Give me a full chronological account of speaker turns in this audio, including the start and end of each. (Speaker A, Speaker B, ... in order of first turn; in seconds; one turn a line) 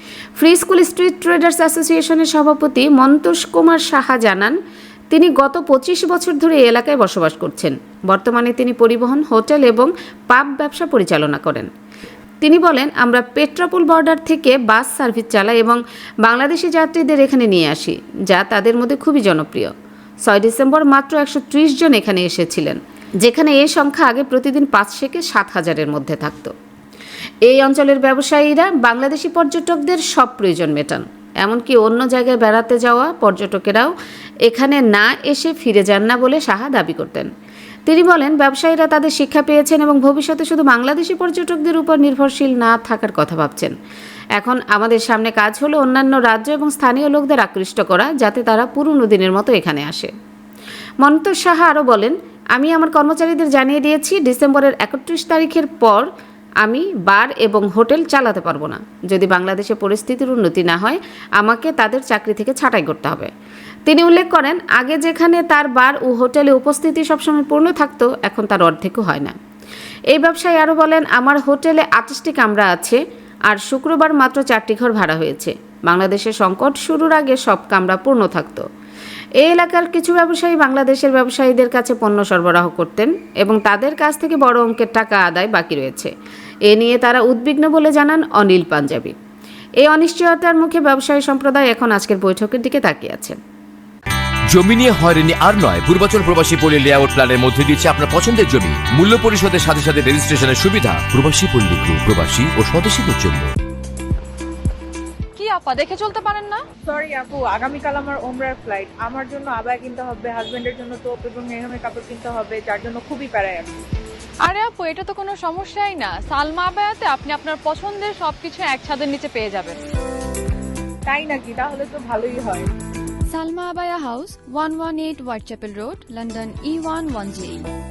Speaker A: 0.4-4.5
Speaker A: 5.1-11.7
Speaker A: 12.4-19.7
Speaker A: 20.2-26.5
Speaker A: 27.4-33.9
Speaker A: 34.4-37.3
Speaker A: 37.9-43.7
Speaker A: 44.4-50.1
Speaker A: 51.0-56.0
Speaker A: 56.6-63.3
Speaker A: 63.9-69.3
Speaker A: 70.1-78.6
Speaker A: 79.4-86.1
Speaker A: 86.7-89.1
Speaker A: 89.8-93.4
Speaker B: 94.5-103.5
Speaker C: 105.3-106.6
Speaker D: 106.8-113.8
Speaker C: 114.4-119.8
Speaker D: 121.1-122.7
Speaker E: 123.3-127.6